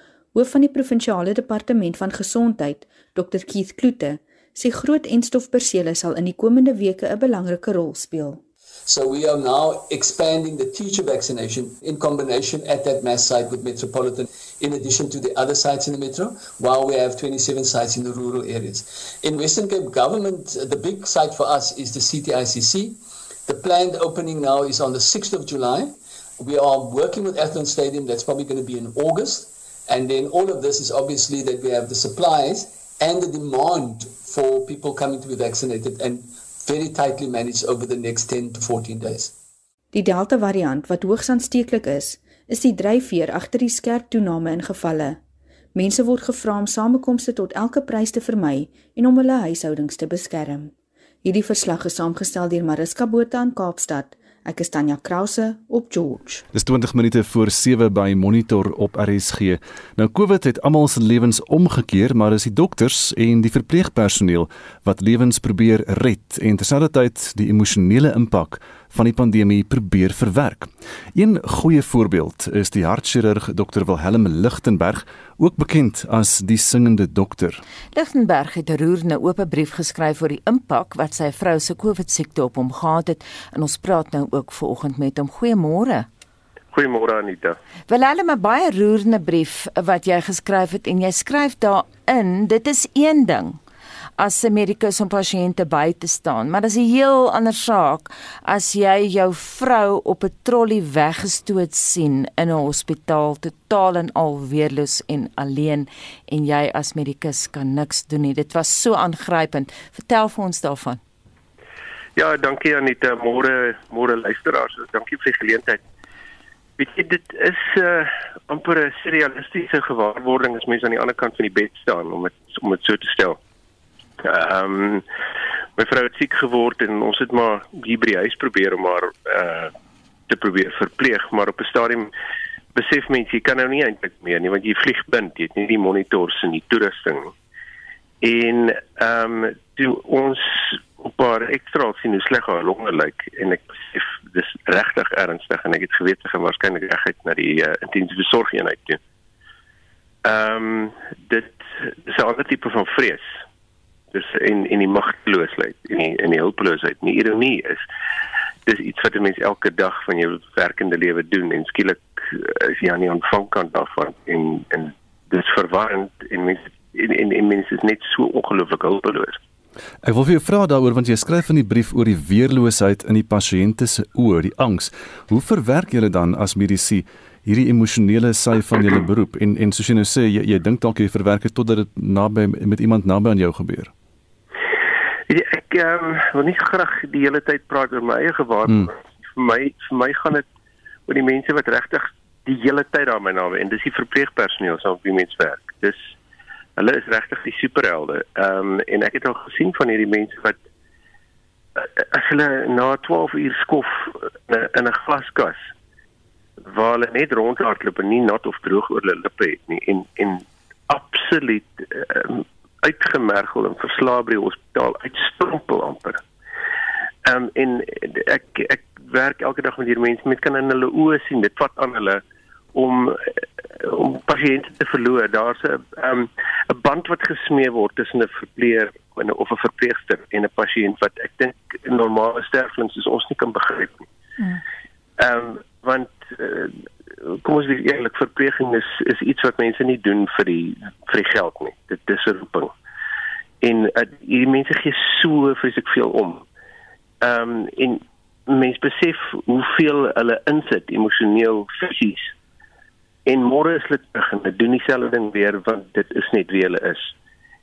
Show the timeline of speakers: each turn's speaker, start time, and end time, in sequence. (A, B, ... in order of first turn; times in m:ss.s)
0:00.3-0:08.4 A
0:08.9-0:39.3 B
0:39.9-0:45.2 A
0:45.8-0:50.7 A
0:51.2-0:56.4 A
0:56.5-1:17.6 C
1:17.9-1:26.1 D
1:26.7-1:27.6 E
1:27.9-1:33.6 D
1:34.2-1:51.0 D
1:52.2-1:55.8 E
1:56.8-2:03.4 E
2:04.2-2:05.0 E
2:05.8-2:09.7 E
2:10.3-2:12.1 E
2:12.7-2:17.3 E
2:18.2-2:29.0 E
2:30.2-2:33.3 E
2:34.1-2:37.8 E
2:38.7-2:49.4 E
2:50.0-3:03.9 C
3:05.3-3:10.5 E
3:11.1-3:16.1 E
3:16.8-3:20.6 E
3:21.8-3:25.7 E
3:26.7-3:36.2 E
3:37.2-3:42.2 E
3:42.7-3:54.1 E
3:55.2-3:56.7 E
3:57.3-4:02.7 E
4:03.6-4:06.4 E
4:07.2-4:12.3 E
4:13.3-4:17.1 E